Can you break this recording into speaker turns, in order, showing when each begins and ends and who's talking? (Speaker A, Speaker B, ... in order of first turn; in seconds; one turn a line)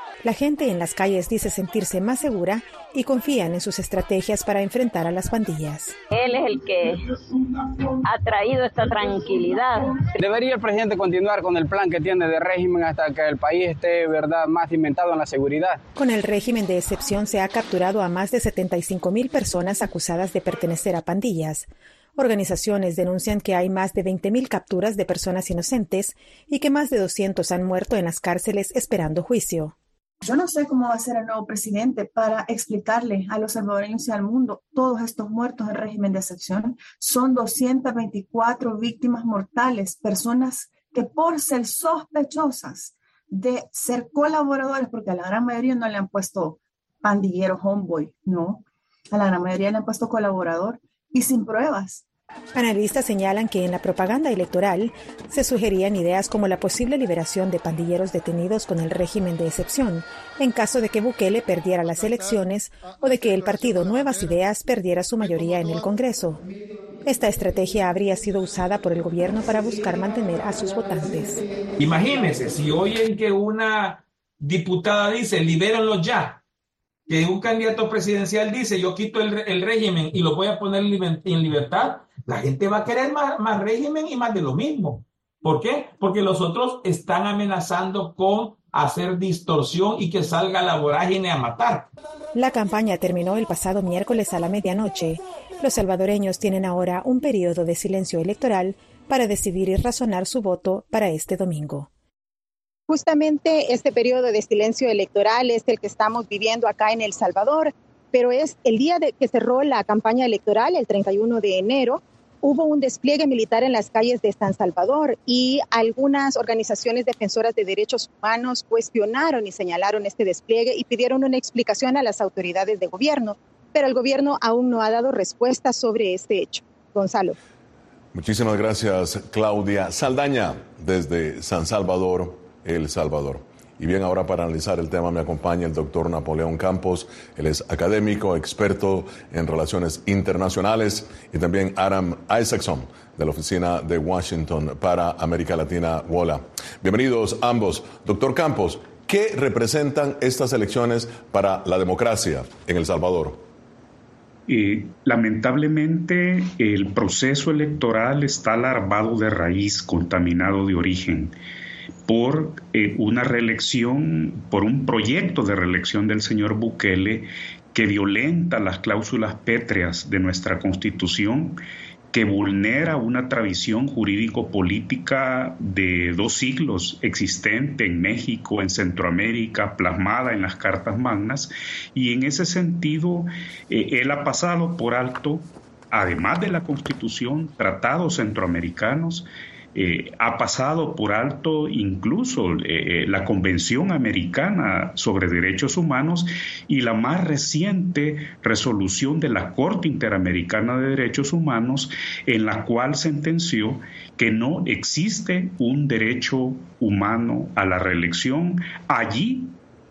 Speaker A: 0.2-6.0
Speaker B: 6.1-10.1
Speaker C: 10.2-15.8
Speaker A: 15.9-29.7
Speaker D: 30.2-52.0
Speaker A: 52.5-66.4
Speaker A: 67.0-71.4
Speaker E: 71.8-76.4
Speaker E: 77.1-91.9
Speaker A: 92.3-101.9
Speaker F: 102.9-127.3
Speaker G: 128.1-153.4
Speaker H: 154.5-161.3
Speaker H: 162.1-171.6
Speaker H: 172.1-209.6